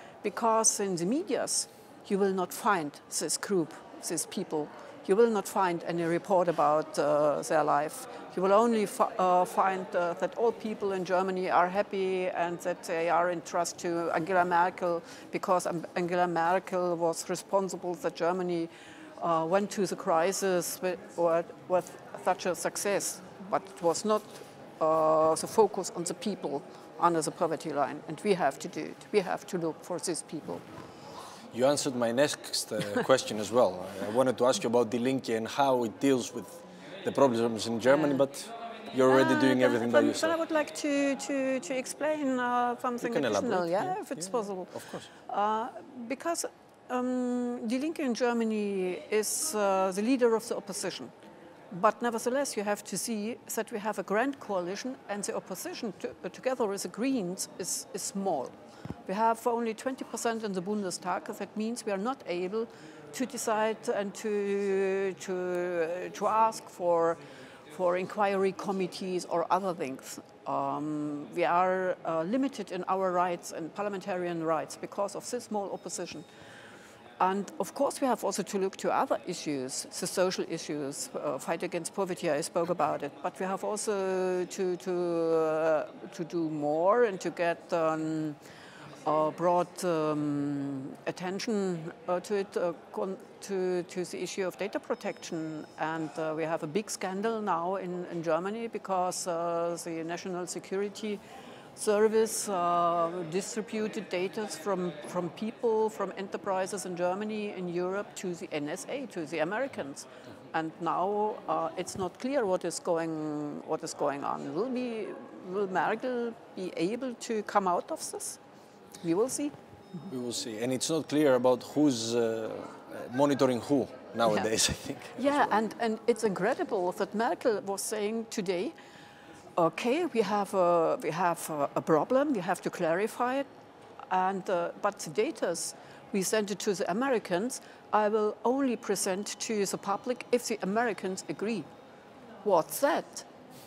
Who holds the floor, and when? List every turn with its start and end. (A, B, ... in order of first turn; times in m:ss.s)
0:00.2-0:30.6 A
0:31.5-0:40.4 B
0:39.1-0:44.8 A
0:43.0-0:45.1 B
0:45.3-0:51.1 A
0:51.7-0:58.6 A
0:59.1-1:07.2 A
1:07.7-1:16.3 A
1:17.2-1:28.4 A
1:29.0-1:41.2 A
1:41.8-1:58.4 A
1:59.0-1:59.5 A
2:00.1-2:05.6 B
2:05.2-2:08.7 A
2:09.6-2:13.5 A
2:14.1-2:21.7 A
2:22.4-2:23.3 A